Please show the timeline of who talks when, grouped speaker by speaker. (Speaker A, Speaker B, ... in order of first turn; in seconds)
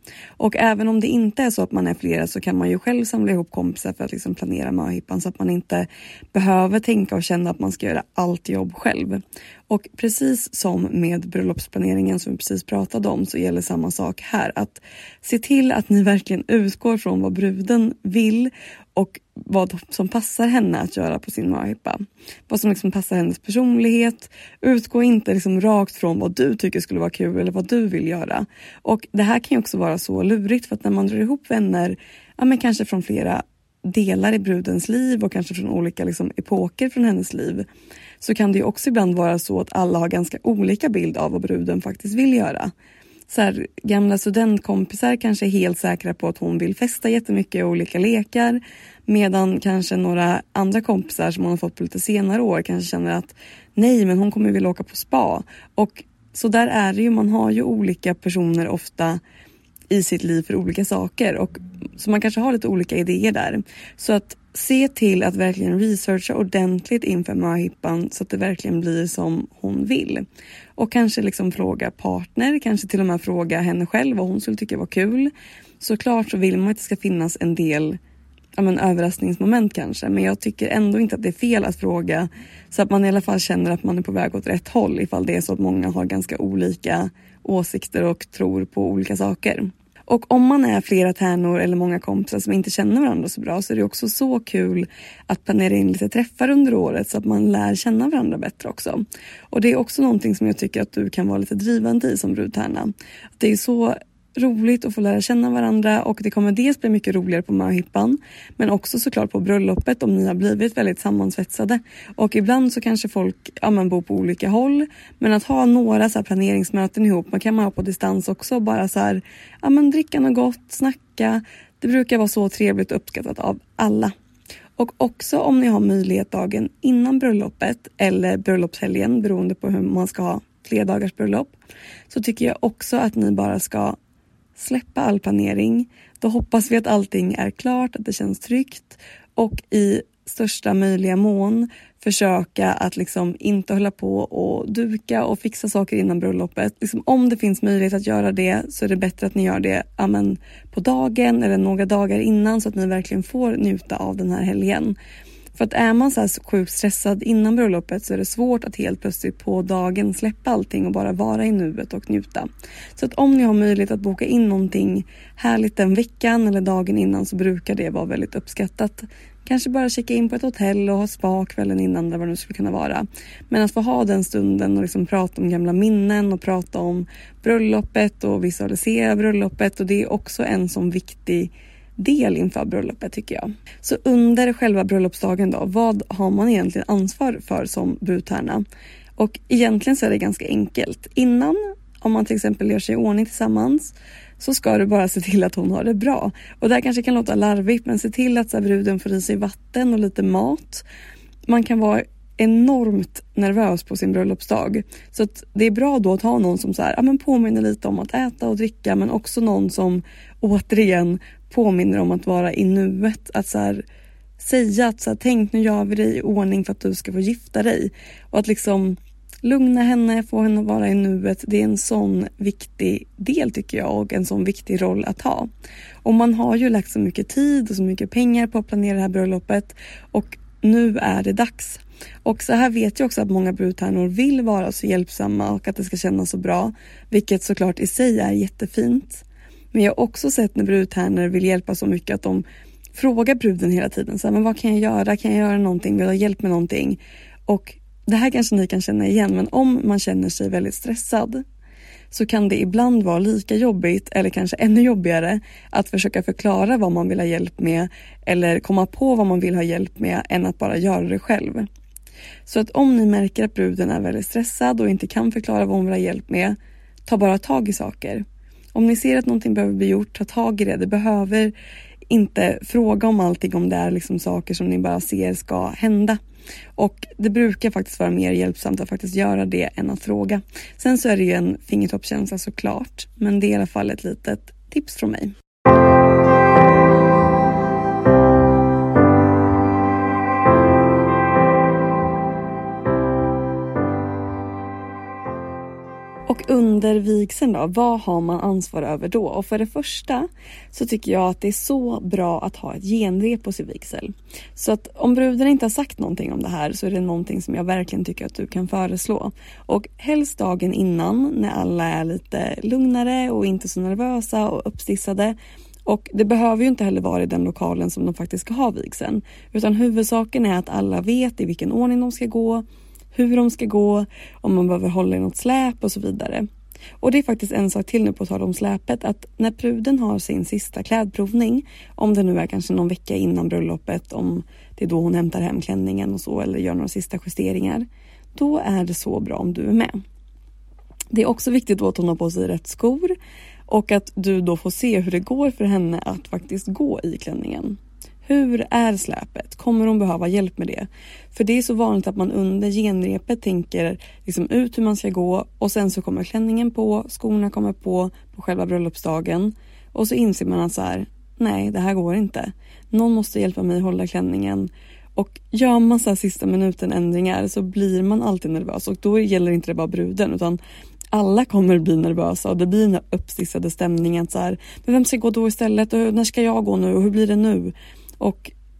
Speaker A: 0.4-37.7, 38.2-42.7, 43.3-59.2, 59.9-70.2, 70.8-78.0, 78.6-124.1, 124.8-131.6, 132.1-134.0, 134.6-154.9, 155.6-188.7, 189.2-200.8, 201.5-213.8, 214.4-225.5, 226.0-251.4, 252.1-261.7, 262.5-271.5, 272.1-276.2, 276.8-285.3, 296.3-326.4, 327.0-340.0, 341.1-343.1, 343.7-370.6, 371.1-378.5